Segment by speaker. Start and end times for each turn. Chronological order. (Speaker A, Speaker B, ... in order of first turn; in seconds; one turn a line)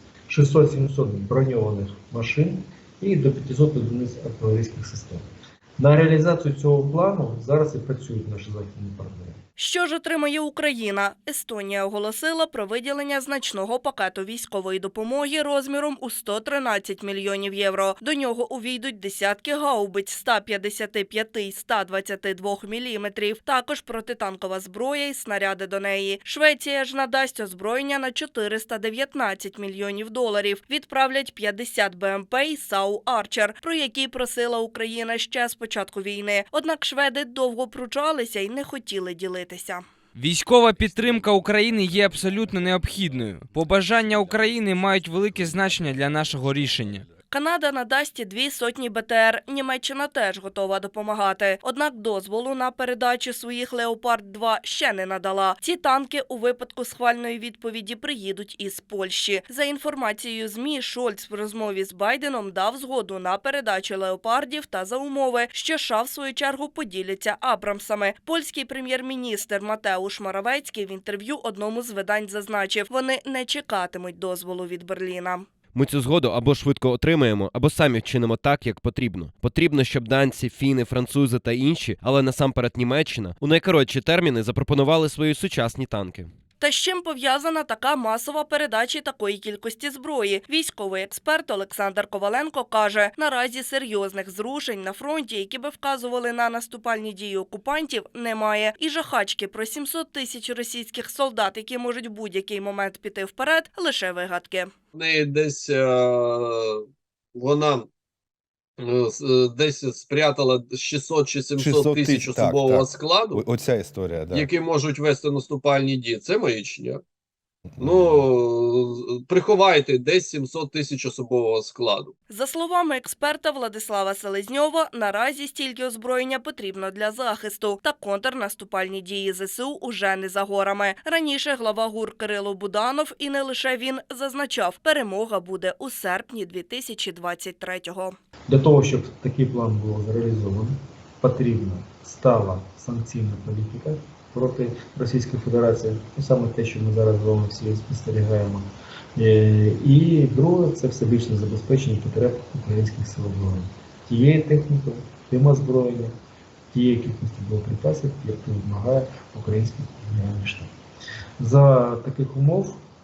Speaker A: 0.3-5.2
Speaker A: 5.8-9.4
Speaker B: 9.6-39.8
Speaker C: 40.1-47.0
Speaker B: 47.3-75.5
Speaker D: 75.7-86.3
Speaker B: 86.6-104.7
Speaker E: 104.9-107.9
Speaker E: 108.8-113.4
Speaker F: 111.6-114.5
Speaker E: 114.3-117.0
Speaker F: 117.8-118.1
Speaker E: 117.8-122.1
Speaker B: 122.3-138.1
Speaker A: 138.5-156.1
Speaker A: 156.7-160.7
Speaker A: 161.4-162.8